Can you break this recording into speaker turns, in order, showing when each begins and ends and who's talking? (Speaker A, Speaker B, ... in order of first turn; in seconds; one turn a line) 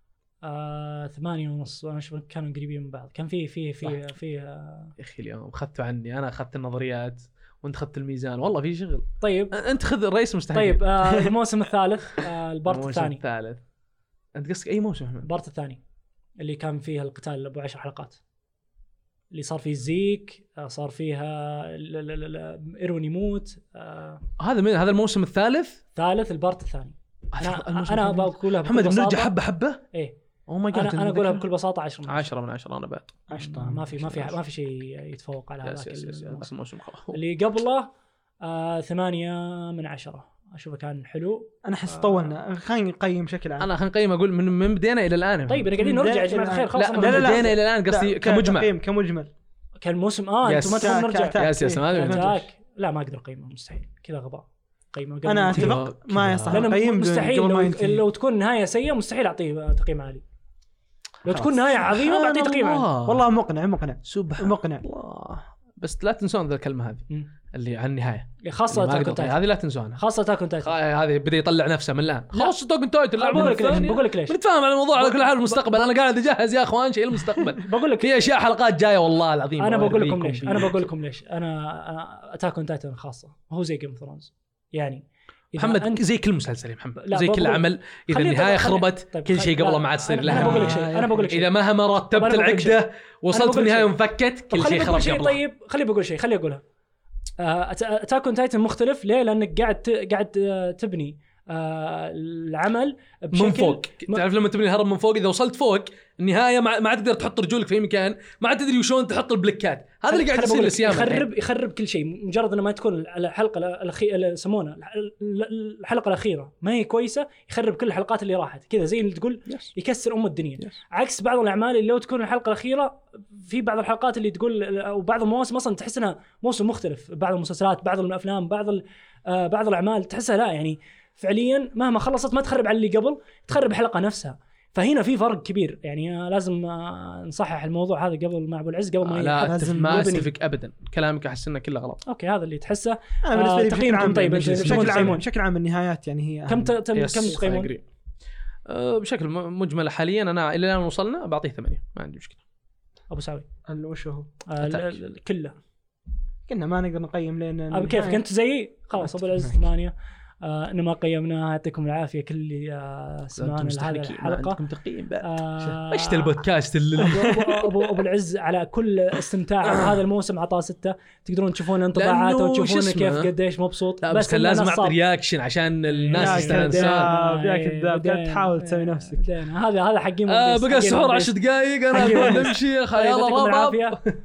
Speaker A: 0.4-4.9
Speaker B: 5.0-10.8
Speaker A: 9.2-9.5
Speaker A: 10.5-13.2
Speaker B: 12.7-13.6
Speaker B: 14.3-15.3
Speaker A: 15.2-15.8
Speaker A: 16.4-18.2
Speaker A: 19.3-24.2
Speaker B: 24.4-25.8
Speaker A: 25.9-29.3
Speaker B: 27.3-29.8
Speaker B: 30.5-31.4
Speaker A: 30.7-32.3
Speaker B: 32.1-33.1
Speaker C: 33.3-34.4
Speaker A: 33.3-36.5
Speaker B: 35.6-37.2
Speaker A: 37.1-37.9
Speaker A: 38.4-42.3
Speaker C: 41.6-43.7
Speaker B: 43.6-45.8
Speaker A: 45.5-47.5
Speaker C: 45.8-49.3
Speaker B: 46.8-48.7
Speaker A: 49.8-55.8
Speaker B: 50.4-52.4
Speaker C: 50.7-52.4
Speaker C: 55.2-58.0
Speaker B: 55.5-56.7
Speaker A: 56.5-60.2
Speaker A: 61.2-62.9
Speaker C: 61.3-62.0
Speaker B: 61.9-63.3
Speaker C: 63.0-64.8
Speaker B: 64.1-70.0
Speaker A: 68.4-69.4
Speaker A: 70.0-70.7
Speaker B: 70.6-80.8
Speaker A: 73.2-74.4
Speaker A: 75.0-75.9
Speaker A: 77.4-78.2
Speaker A: 79.6-86.0
Speaker B: 85.6-95.4
Speaker A: 87.0-91.5
Speaker C: 90.2-91.3
Speaker A: 92.1-93.9
Speaker A: 94.5-96.6
Speaker A: 97.4-104.2
Speaker B: 103.3-111.3
Speaker A: 110.1-140.3
Speaker B: 139.0-142.0
Speaker C: 139.4-140.2
Speaker A: 142.0-145.2
Speaker C: 143.2-146.8
Speaker B: 144.4-145.2
Speaker A: 146.5-147.7
Speaker B: 146.9-147.8
Speaker B: 148.7-152.4
Speaker A: 153.1-153.4
Speaker C: 153.7-154.3
Speaker A: 154.5-155.6
Speaker B: 154.6-155.0
Speaker C: 156.5-158.2
Speaker A: 157.7-164.6
Speaker C: 159.0-159.5
Speaker B: 163.3-167.4
Speaker A: 165.2-166.4
Speaker A: 166.9-175.0
Speaker C: 167.1-167.4
Speaker B: 169.6-170.0
Speaker B: 171.9-173.3
Speaker B: 174.0-177.1
Speaker A: 175.9-181.3
Speaker C: 176.1-179.2
Speaker B: 180.3-184.2
Speaker A: 181.9-184.0
Speaker C: 182.0-182.5